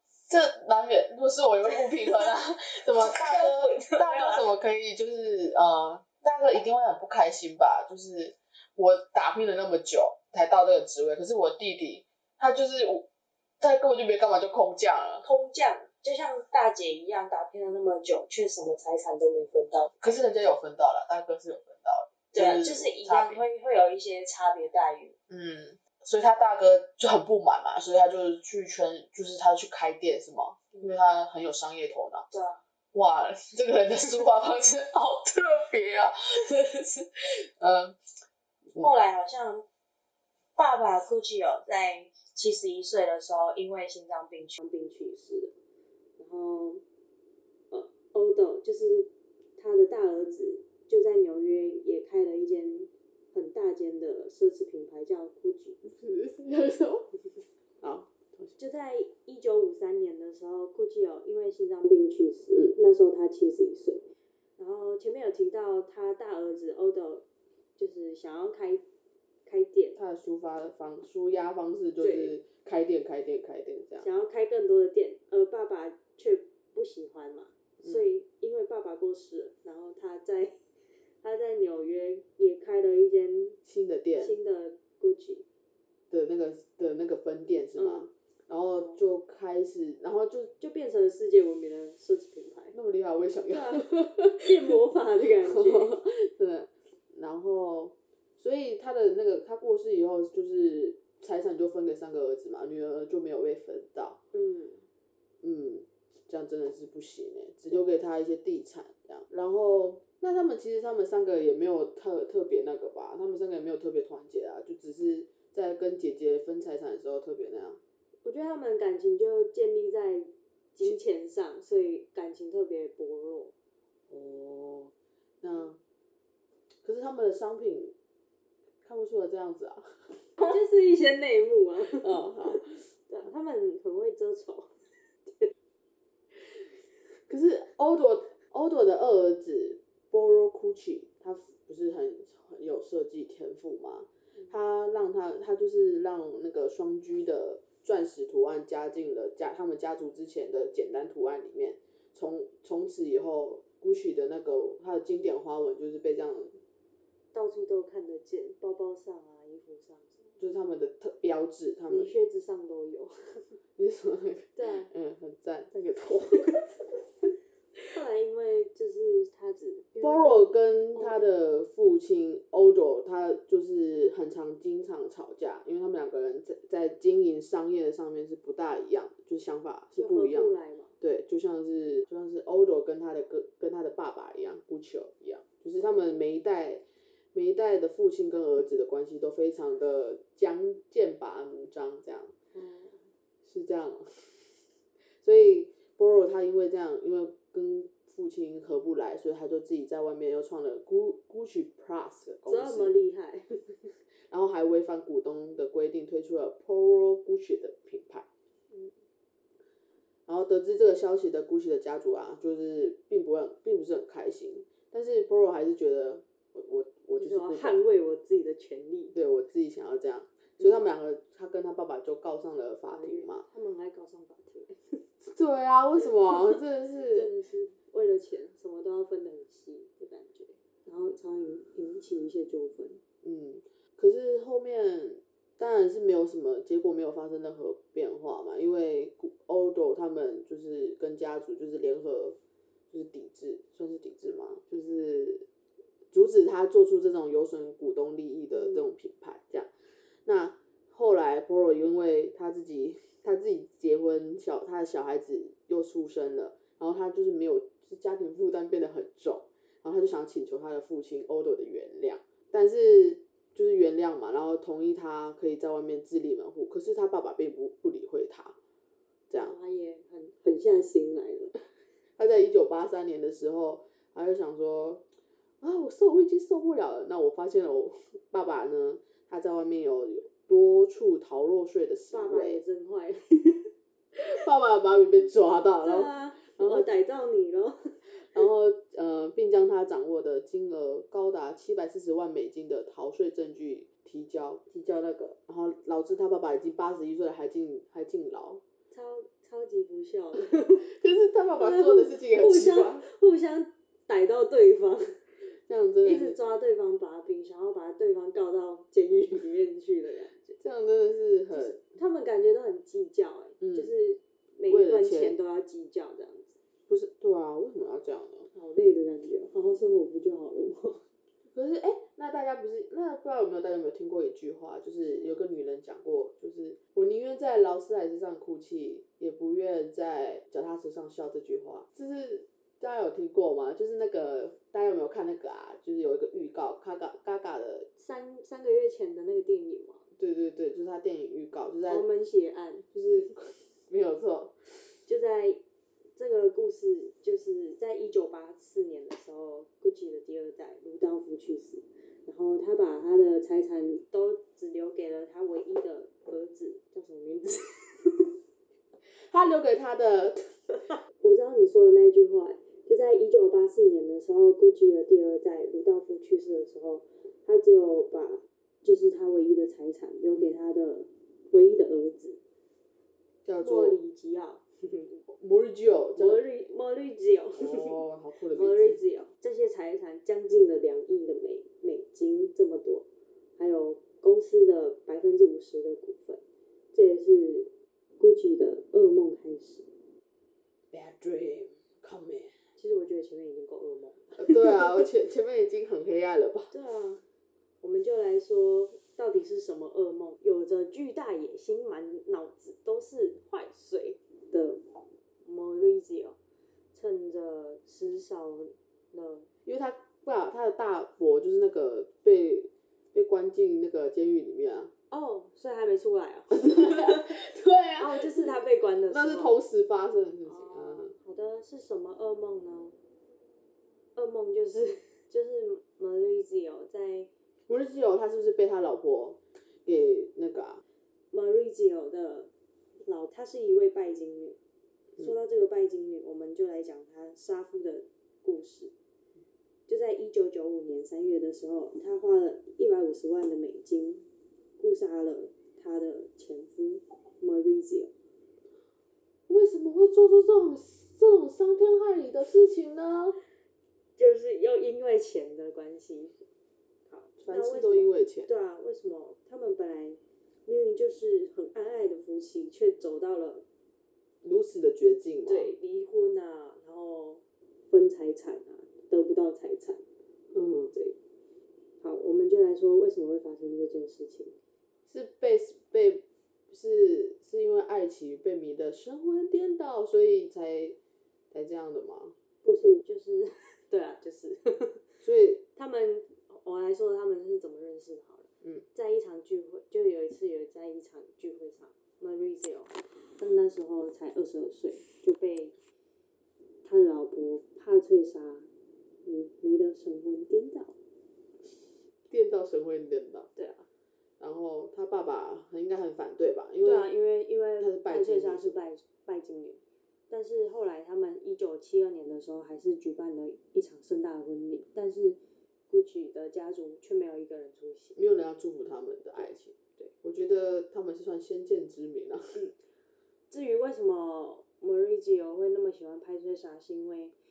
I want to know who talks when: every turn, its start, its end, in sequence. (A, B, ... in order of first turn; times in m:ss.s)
0:00.3-0:13.1 A
0:03.0-0:04.5 B
0:13.6-0:15.2 A
0:15.2-0:19.9 B
0:20.0-0:23.4 A
0:22.3-0:25.2 B
0:25.3-0:32.3 A
0:32.3-0:32.6 B
0:32.9-0:38.0 A
0:38.8-0:39.6 B
0:40.6-0:45.5 B
0:46.2-0:46.8 B
0:47.7-0:55.8 B
0:55.8-0:57.1 A
0:57.8-0:58.5 A
0:58.6-1:04.0 B
1:04.6-1:07.2 B
1:07.8-1:08.8 B
1:09.4-1:10.0 B
1:10.0-1:14.1 A
1:12.0-1:12.3 B
1:14.0-1:20.6 B
1:17.8-1:18.0 A
1:21.2-1:23.6 B
1:23.6-1:24.4 A
1:24.2-1:25.4 B
1:26.1-1:30.5 A
1:27.8-1:28.1 B
1:28.8-1:29.0 B
1:30.6-1:32.7 B
1:32.7-1:34.8 A
1:33.5-1:36.0 B
1:35.4-1:44.2 A
1:44.3-1:44.8 B
1:45.4-1:57.8 A
1:58.2-2:03.5 B
2:04.1-2:05.8 A
2:06.8-2:07.9 A
2:08.8-2:10.1 A
2:10.4-2:14.7 B
2:12.0-2:12.8 A
2:17.3-2:36.6 A
2:37.3-2:40.2 B
2:40.4-2:42.1 A
2:41.9-2:43.5 B
2:43.8-2:46.7 A
2:44.6-2:44.9 B
2:47.9-2:51.2 B
2:50.0-3:12.3 A
3:00.0-3:00.9 B
3:12.5-3:13.0 B
3:13.4-3:14.5 A
3:15.2-3:22.9 A
3:22.4-3:23.7 B
3:24.3-3:28.3 A
3:30.3-3:37.8 A
3:37.2-3:39.1 B
3:39.1-3:43.4 A
3:42.9-3:45.0 B
3:45.2-3:47.3 A
3:46.0-3:53.0 B
3:53.2-4:02.4 A
4:02.9-4:05.4 A
4:06.1-4:09.7 A
4:08.5-4:08.8 B
4:10.2-4:28.6 A
4:29.3-4:29.6 A
4:29.3-4:31.5 B
4:32.2-4:35.0 A
4:35.6-4:42.6 A
4:42.1-4:43.6 B
4:44.1-4:46.9 A
4:45.8-4:48.0 B
4:48.1-4:58.6 A
4:58.9-5:00.9 B
5:00.7-5:03.0 A
5:01.6-5:05.2 B
5:05.7-5:06.4 A
5:06.0-5:10.6 B
5:10.6-5:11.8 A
5:11.5-5:16.5 B
5:13.6-5:13.9 A
5:14.7-5:15.4 A
5:16.9-5:18.5 A
5:18.5-5:21.0 B
5:21.5-5:37.9 A
5:38.0-5:40.0 B
5:40.2-5:42.0 A
5:41.9-5:42.8 B
5:42.9-5:44.6 A
5:45.0-5:45.6 B
5:46.2-5:58.3 B
5:59.2-6:00.5 A
6:01.2-6:12.4 B
6:13.4-6:14.0 A
6:13.6-6:15.2 B
6:15.3-6:16.4 A
6:16.2-6:18.0 B
6:17.6-6:19.0 A
6:18.5-6:23.0 B
6:23.6-6:26.4 B
6:26.9-6:29.9 B
6:30.9-6:32.5 A
6:32.8-6:34.9 B
6:34.4-6:36.7 A
6:36.7-6:37.2 B
6:37.8-6:44.8 B
6:45.4-6:46.4 B
6:46.9-6:49.5 B
6:49.6-6:54.9 A
6:55.1-6:57.4 B
6:56.5-6:58.5 A
6:58.0-6:59.6 B
6:59.1-7:01.1 A
7:00.4-7:03.0 B
7:04.1-7:07.3 B
7:07.7-7:10.8 A
7:11.3-7:12.5 B
7:13.0-7:14.6 B
7:15.2-7:18.9 B
7:19.9-7:24.2 B
7:24.8-7:28.1 B
7:29.5-7:33.4 A
7:34.2-7:36.4 B
7:37.1-7:43.6 B
7:37.4-7:38.5 A
7:44.4-7:45.7 A
7:45.5-7:50.0 B
7:50.5-7:50.9 A
7:52.0-7:54.5 B
7:55.1-8:01.0 A
8:01.5-8:02.3 A
8:02.6-8:05.0 B
8:05.2-8:05.6 A
8:05.8-8:15.7 B
8:16.8-8:18.7 B
8:19.2-8:21.0 B
8:22.3-8:23.5 A
8:23.6-8:23.9 B
8:24.4-8:27.1 A
8:26.8-8:35.4 B
8:27.8-8:28.8 A
8:35.9-8:38.2 B
8:38.2-8:42.6 A
8:43.5-8:47.3 B